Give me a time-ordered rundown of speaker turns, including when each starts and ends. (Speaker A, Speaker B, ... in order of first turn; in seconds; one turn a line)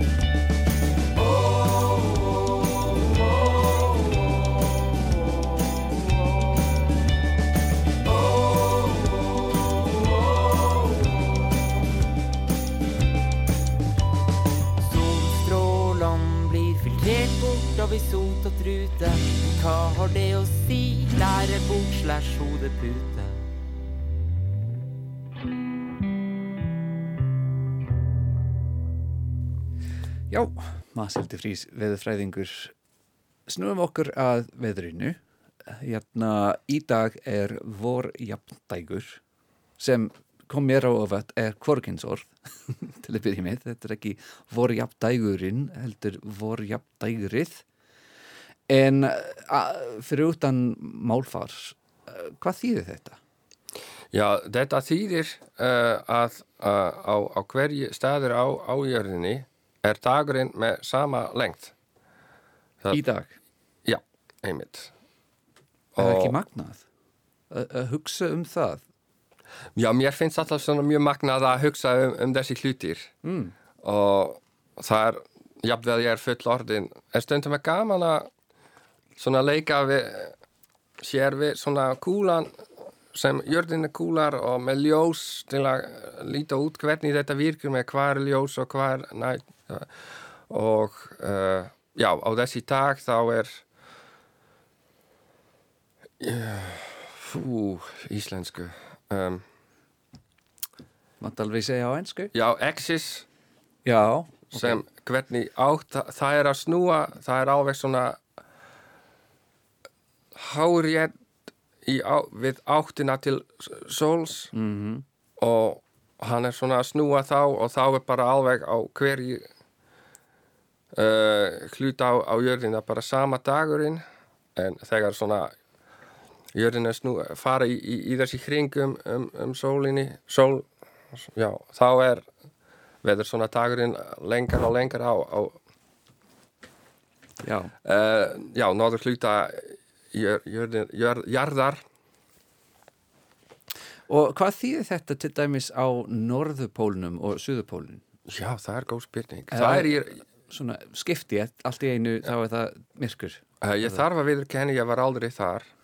Speaker A: 14.8-23.5
Speaker B: 30.3-32.7
Speaker B: 33.5-39.2
Speaker B: 39.8-47.6
Speaker B: 48.7-53.2
Speaker C: 54.1-61.7
Speaker B: 62.9-63.4
Speaker C: 63.8-64.9
Speaker C: 65.9-66.4
Speaker B: 66.0-66.8
Speaker B: 67.5-68.8
Speaker C: 69.8-73.1
Speaker B: 73.2-73.5
Speaker C: 73.8-78.3
Speaker C: 79.2-80.3
Speaker C: 81.0-89.9
Speaker C: 90.5-93.6
Speaker C: 96.2-99.4
Speaker B: 101.2-102.3
Speaker C: 102.3-103.3
Speaker B: 103.8-104.8
Speaker C: 104.5-108.2
Speaker C: 110.3-111.1
Speaker C: 111.8-114.5
Speaker B: 114.5-115.0
Speaker C: 115.4-119.5
Speaker C: 120.9-124.0
Speaker C: 124.5-125.5
Speaker C: 126.5-132.3
Speaker C: 133.0-135.6
Speaker B: 137.4-137.7
Speaker C: 137.8-141.8
Speaker B: 144.1-148.0
Speaker C: 148.3-150.2
Speaker B: 149.5-154.0
Speaker C: 153.6-155.7